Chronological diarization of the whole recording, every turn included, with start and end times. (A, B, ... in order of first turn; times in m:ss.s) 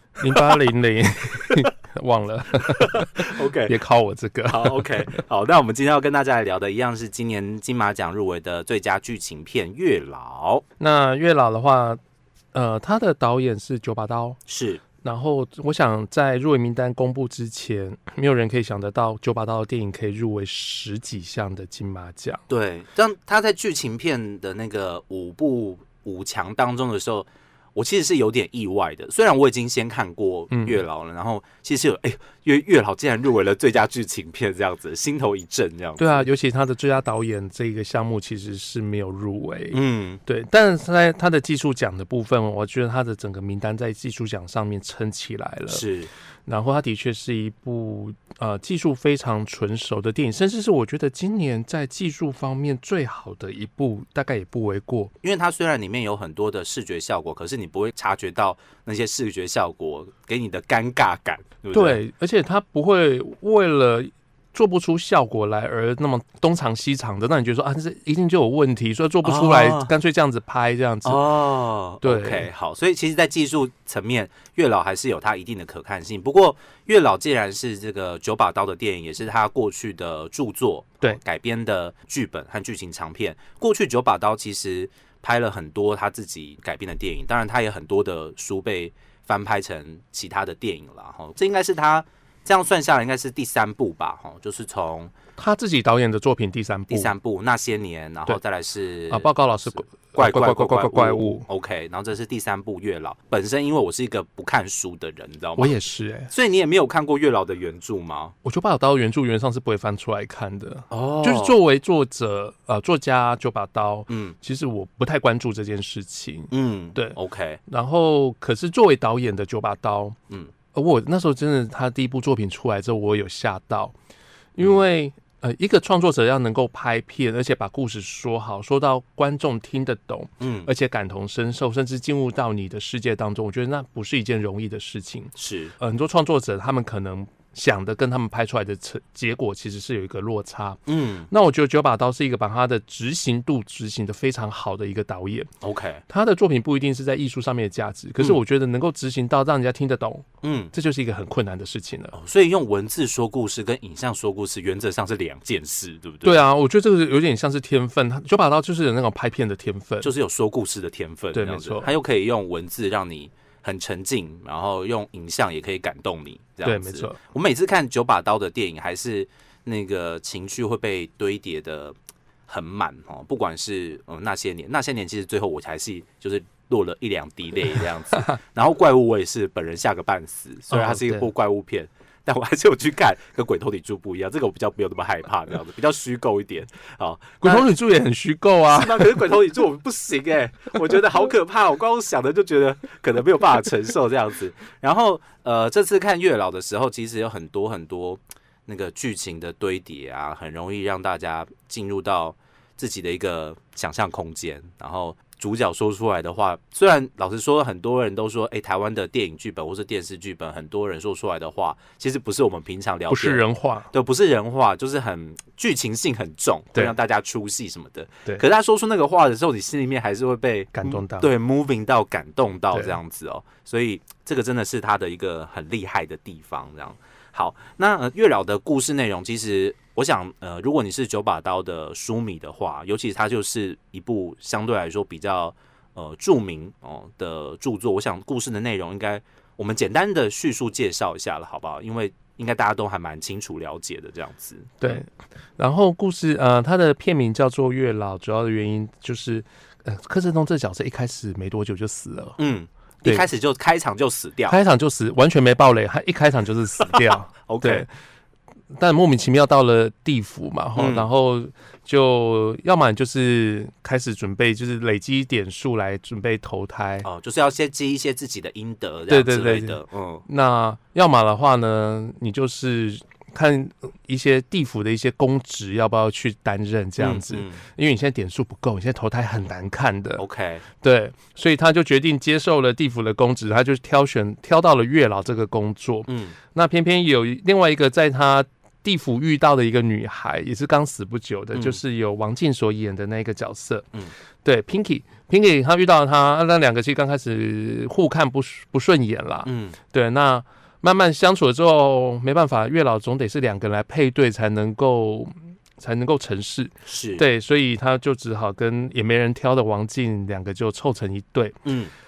0:00.2-0:05.2 A
0:02.8-0:03.7 B
0:04.5-0:10.6 B
0:10.8-0:12.0 A
0:12.5-0:14.4 A
0:14.4-0:14.8 B
0:15.0-0:22.4 A
0:22.5-0:36.3 B
0:30.5-0:30.8 A
0:36.0-0:45.8 A
0:39.7-0:40.2 B
0:45.7-0:46.1 B
0:46.4-0:55.1 A
0:55.2-1:02.0 B
1:01.7-1:11.2 A
1:09.2-1:09.9 B
1:11.0-1:35.1 B
1:12.0-1:12.5 A
1:35.4-1:37.1 A
1:36.9-1:45.8 B
1:39.1-1:41.5 A
1:45.6-1:46.3 A
1:46.3-1:48.3 B
1:48.4-2:00.2 A
1:50.9-1:51.6 B
1:54.1-1:54.4 B
1:56.5-1:57.6 B
2:00.7-2:03.9 A
2:04.6-2:25.5 A
2:10.4-2:10.7 B
2:15.4-2:15.8 B
2:20.9-2:21.3 B
2:25.6-2:26.0 B
2:26.1-2:32.2 A
2:30.4-2:30.7 B
2:32.1-2:36.4 B
2:36.2-2:40.1 A
2:40.0-2:51.9 B
2:41.3-2:41.9 A
2:46.6-2:47.2 A
2:52.5-3:07.7 B
3:00.7-3:01.3 A
3:07.4-3:09.2 A
3:08.7-4:05.0 B
3:33.1-3:33.9 A
3:40.7-3:41.3 A
3:42.7-3:43.0 A
4:04.8-4:12.4 A
4:12.4-4:14.6 B
4:14.5-4:17.9 A
4:16.8-4:17.9 B
4:18.7-4:27.1 A
4:20.8-4:21.1 B
4:27.0-4:30.2 B
4:29.1-4:40.2 A
4:37.0-4:37.6 B
4:40.2-4:40.6 B
4:40.8-4:53.9 A
4:46.1-4:46.4 B
4:51.5-4:51.8 B
4:54.4-5:11.6 A
4:59.4-4:59.8 B
5:06.8-5:07.2 B
5:11.6-5:11.9 B